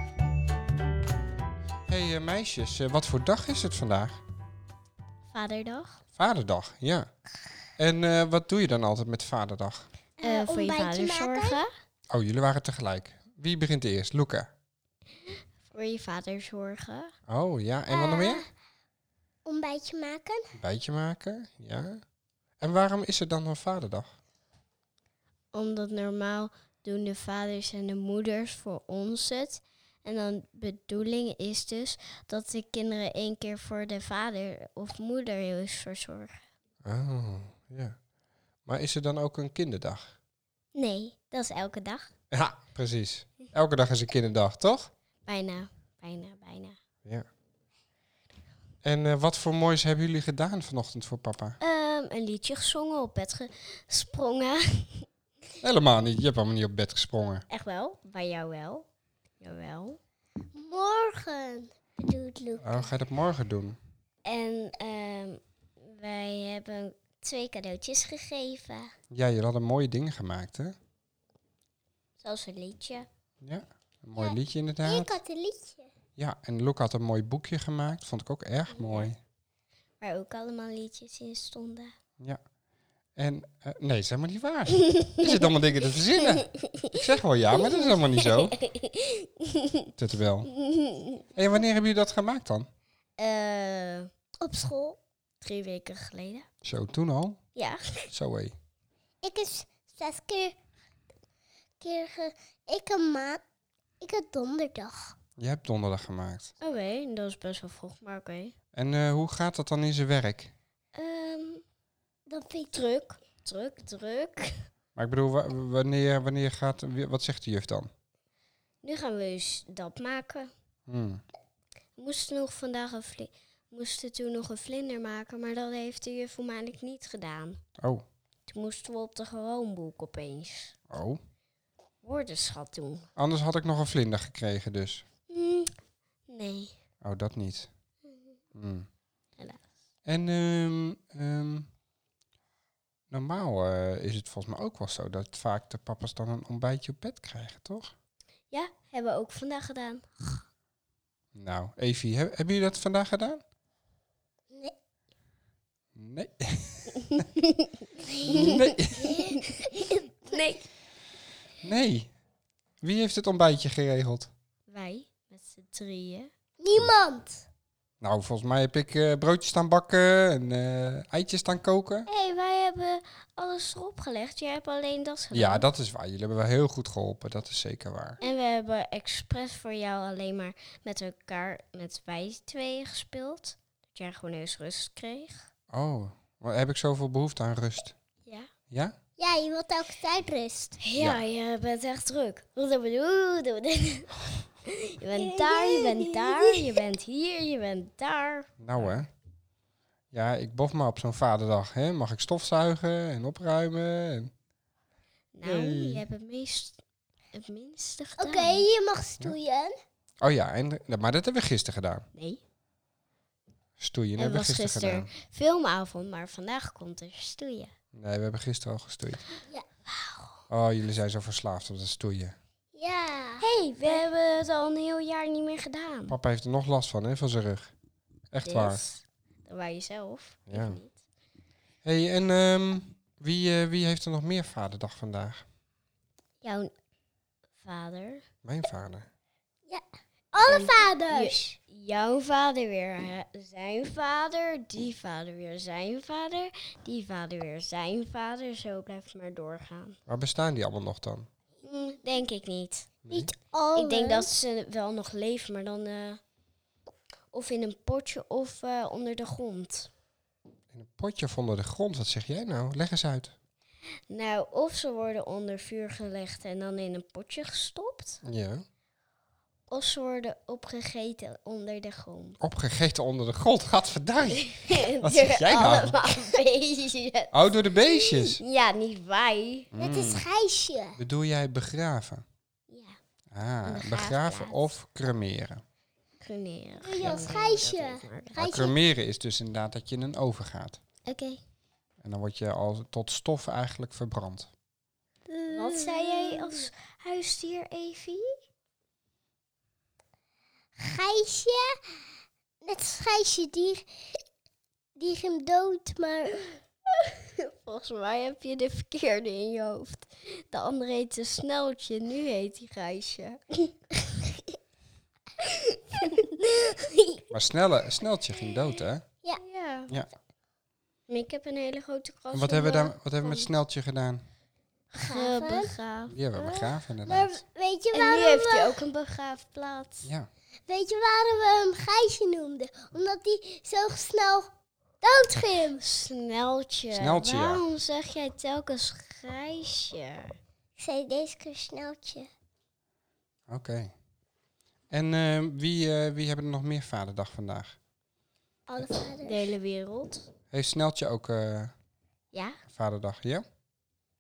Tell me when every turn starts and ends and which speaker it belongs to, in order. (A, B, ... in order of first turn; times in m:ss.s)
0:01.9-0:04.2 A
0:05.3-0:06.0 B
0:06.2-0:07.1 A
0:07.8-0:09.9 A
0:10.2-0:11.6 C
0:10.2-0:11.7 B
0:12.1-0:14.5 A
0:15.7-0:17.1 B
0:17.3-0:18.4 A
0:17.9-0:18.5 C
0:19.4-0:20.5 C
0:20.6-0:22.0 A
0:22.6-0:24.1 A
0:25.5-0:36.4 B
0:36.8-0:38.0 A
0:38.7-0:40.2 A
0:40.8-0:42.1 B
0:42.3-0:44.9 A
0:45.3-0:46.8 B
0:48.8-0:51.6 A
0:51.6-0:55.1 B
0:55.6-0:57.4 A
0:57.5-0:58.9 B
0:59.4-1:00.0 B
1:00.6-1:02.9 C
1:02.6-1:03.8 A
1:04.2-1:08.9 B
1:09.1-1:10.8 A
1:12.2-1:13.1 B
1:13.4-1:15.1 A
1:14.2-1:15.9 C
1:16.2-1:19.2 A
1:18.8-1:19.1 B
1:20.0-1:21.9 B
1:23.2-1:28.6 A
1:26.6-1:27.0 B
1:27.6-1:29.8 B
1:30.0-1:30.5 A
1:30.5-1:31.2 B
1:31.4-1:32.7 A
1:33.2-1:34.1 B
1:34.4-1:35.0 C
1:35.4-1:36.5 B
1:36.6-1:37.4 A
1:37.6-1:38.0 B
1:38.1-1:38.6 A
1:39.2-1:40.6 C
1:41.8-1:43.4 C
1:44.0-1:45.2 C
1:45.4-1:46.5 A
1:46.6-1:48.5 B
1:48.7-1:50.5 A
1:51.0-1:51.6 B
1:52.3-1:52.8 C
1:52.7-1:54.5 B
1:55.0-1:57.9 A
1:58.8-2:00.5 B
2:00.9-2:01.2 A
2:02.0-2:07.6 B
2:07.8-2:08.0 A
2:08.5-2:10.8 B
2:10.9-2:11.2 A
2:12.0-2:13.1 B
2:13.2-2:15.0 A
2:15.3-2:15.7 B
2:16.3-2:16.7 B
2:17.0-2:17.7 A
2:18.6-2:18.9 A
2:19.4-2:19.6 B
2:20.1-2:21.7 A
2:23.1-2:27.9 A
2:28.5-2:30.4 B
2:31.4-2:33.4 A
2:36.0-2:37.2 A
2:37.1-2:40.7 B
2:38.3-2:39.2 A
2:39.0-2:39.9 C
2:41.6-2:42.1 A
2:42.8-2:44.3 A
2:44.7-2:46.3 B
2:46.6-2:47.5 C
2:48.0-2:52.1 A
2:52.1-2:55.7 B
2:55.3-2:58.2 A
2:58.2-3:05.5 B
3:05.7-3:08.0 A
3:08.7-3:09.0 A
3:09.2-3:10.8 C
3:10.8-3:19.0 B
3:15.2-3:16.8 C
3:18.6-3:19.1 A
3:20.1-3:24.3 A
3:25.3-3:26.8 B
3:25.4-3:26.0 A
3:27.3-3:28.6 B
3:28.2-3:29.7 C
3:30.2-3:32.0 A
3:32.2-3:32.4 B
3:33.8-3:35.1 A
3:34.2-3:37.7 B
3:38.0-3:39.2 A
3:39.9-3:40.3 B
3:40.5-3:42.4 A
3:42.7-3:44.0 C
3:43.4-3:46.2 B
3:46.1-3:47.7 A
3:48.3-3:48.8 A
3:48.4-3:51.0 B
3:50.5-3:50.8 A
3:51.8-3:55.4 A
3:56.4-3:56.7 B
3:57.6-3:58.2 B
3:58.4-3:59.1 A
3:59.7-4:01.4 C
4:00.4-4:10.0 B
4:10.1-4:11.3 A
4:11.6-4:13.0 B
4:13.1-4:13.3 A
4:13.1-4:14.4 C
4:13.8-4:16.2 B
4:17.3-4:19.9 B
4:20.7-4:23.3 A
4:24.1-4:28.2 B
4:28.2-4:28.6 A
4:29.7-4:32.4 B
4:32.4-4:36.0 A
4:34.6-4:39.7 B
4:37.3-4:38.4 A
4:39.7-4:40.2 A
4:39.8-4:41.0 C
4:41.0-4:42.2 A
4:42.7-4:43.0 B
4:43.3-4:45.6 A
4:43.6-4:44.7 B
4:46.2-4:48.4 B
4:46.8-4:48.8 C
4:48.4-4:50.8 A
4:51.1-4:51.4 B
4:52.0-4:54.5 A
4:55.3-4:56.5 C
4:55.5-4:58.4 B
5:00.8-5:01.7 C
5:02.6-5:03.8 C
5:05.0-5:06.5 C
5:07.2-5:14.6 B
5:15.4-5:16.2 B
5:16.7-5:17.2 C
5:17.3-5:19.0 A
5:19.4-5:20.0 B
5:21.1-5:23.5 B
5:22.3-5:24.3 A
5:24.9-5:26.7 B
5:25.0-5:25.7 C
5:26.1-5:27.4 A
5:27.0-5:28.8 C
5:27.9-5:30.1 B
5:30.0-5:30.3 A
5:30.7-5:34.5 C
5:35.0-5:35.8 C
5:35.8-5:40.3 B
5:37.0-5:37.6 A
5:40.8-5:42.3 C
5:43.5-5:43.9 A
5:44.9-5:47.8 A
5:48.7-5:49.5 C
5:49.2-5:50.3 B
5:50.5-5:51.7 A
5:52.3-5:52.6 B
5:52.7-5:53.4 A